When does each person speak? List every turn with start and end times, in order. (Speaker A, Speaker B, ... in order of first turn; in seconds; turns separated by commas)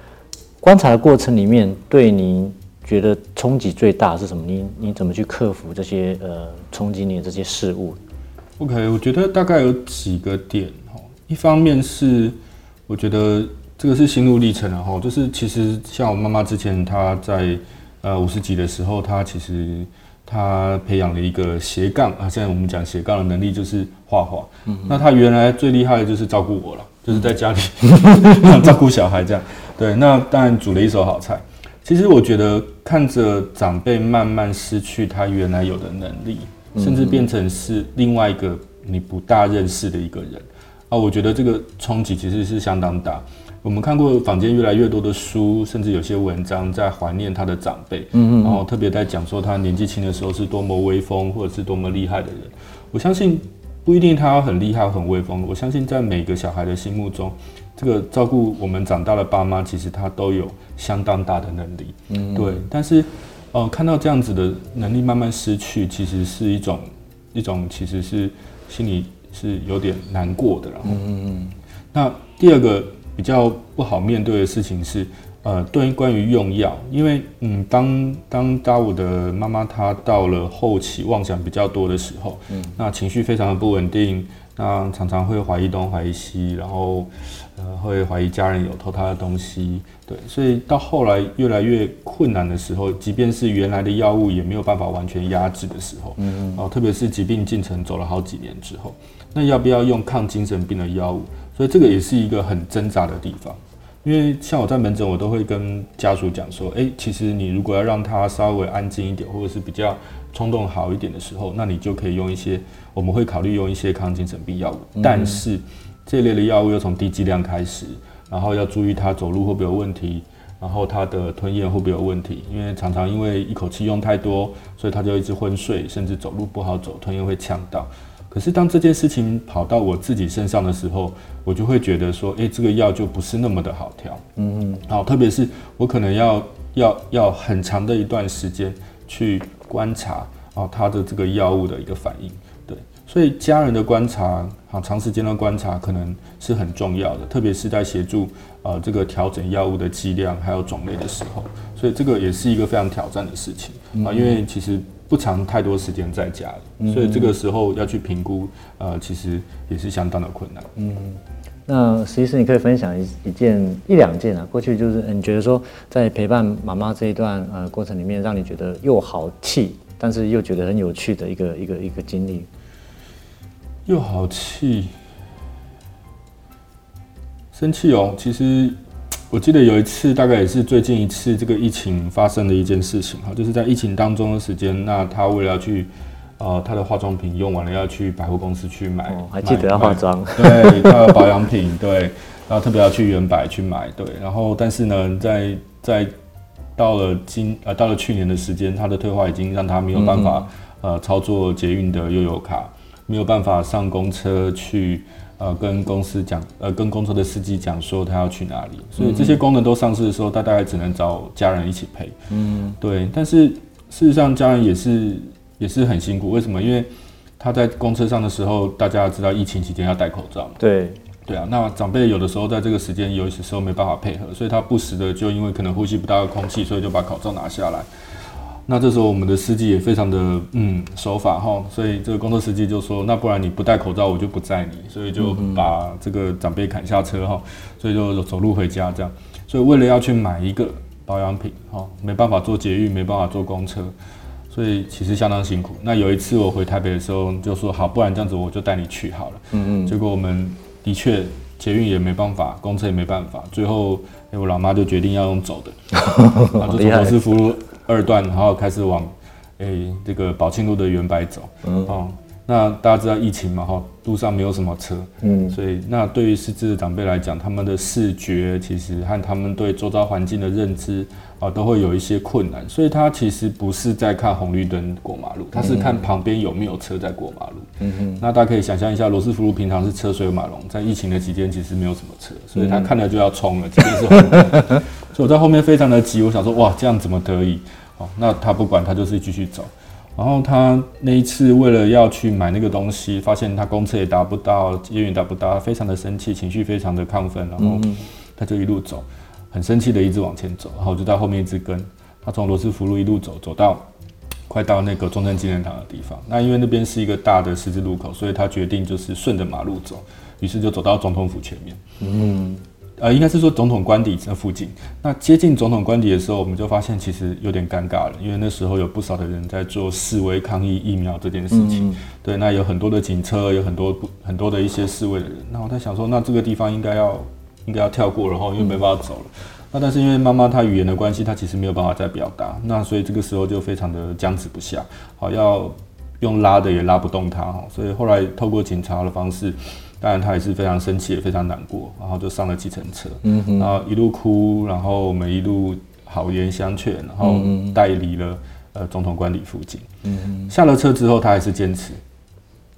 Speaker A: 0.6-8.0, Speaker B: 8.6-12.4, Speaker B: 12.9-71.0, Speaker A: 36.8-37.3, Speaker A: 48.1-48.6, Speaker A: 62.1-62.6, Speaker A: 70.9-71.5, Speaker B: 71.9-134.2, Speaker A: 82.5-82.8, Speaker A: 96.2-96.6, Speaker A: 115.0-115.4, Speaker A: 134.4-134.8, Speaker B: 134.9-160.7, Speaker A: 153.9-154.4, Speaker A: 156.8-157.3, Speaker A: 160.8-172.5, Speaker B: 173.9-174.9, Speaker B: 177.5-178.8, Speaker B: 179.3-196.1, Speaker A: 189.1-191.2, Speaker B: 196.8-212.2, Speaker A: 199.9-200.4, Speaker A: 209.0-209.4, Speaker A: 212.3-212.8, Speaker B: 212.8-220.6, Speaker A: 220.6-221.0, Speaker B: 221.2-227.9, Speaker B: 228.7-243.9, Speaker A: 235.2-235.6, Speaker B: 244.5-255.8, Speaker A: 249.5-249.9, Speaker A: 256.0-257.2, Speaker B: 256.5-303.9, Speaker A: 261.6-261.9, Speaker A: 265.2-265.6, Speaker A: 275.6-276.0, Speaker A: 277.8-278.2, Speaker A: 282.6-282.9, Speaker A: 297.6-298.0, Speaker B: 304.5-311.8, Speaker A: 312.0-312.6, Speaker B: 313.0-349.9, Speaker A: 321.5-322.0, Speaker A: 343.2-343.7, Speaker A: 347.2-347.8, Speaker A: 350.1-350.5, Speaker B: 350.5-352.0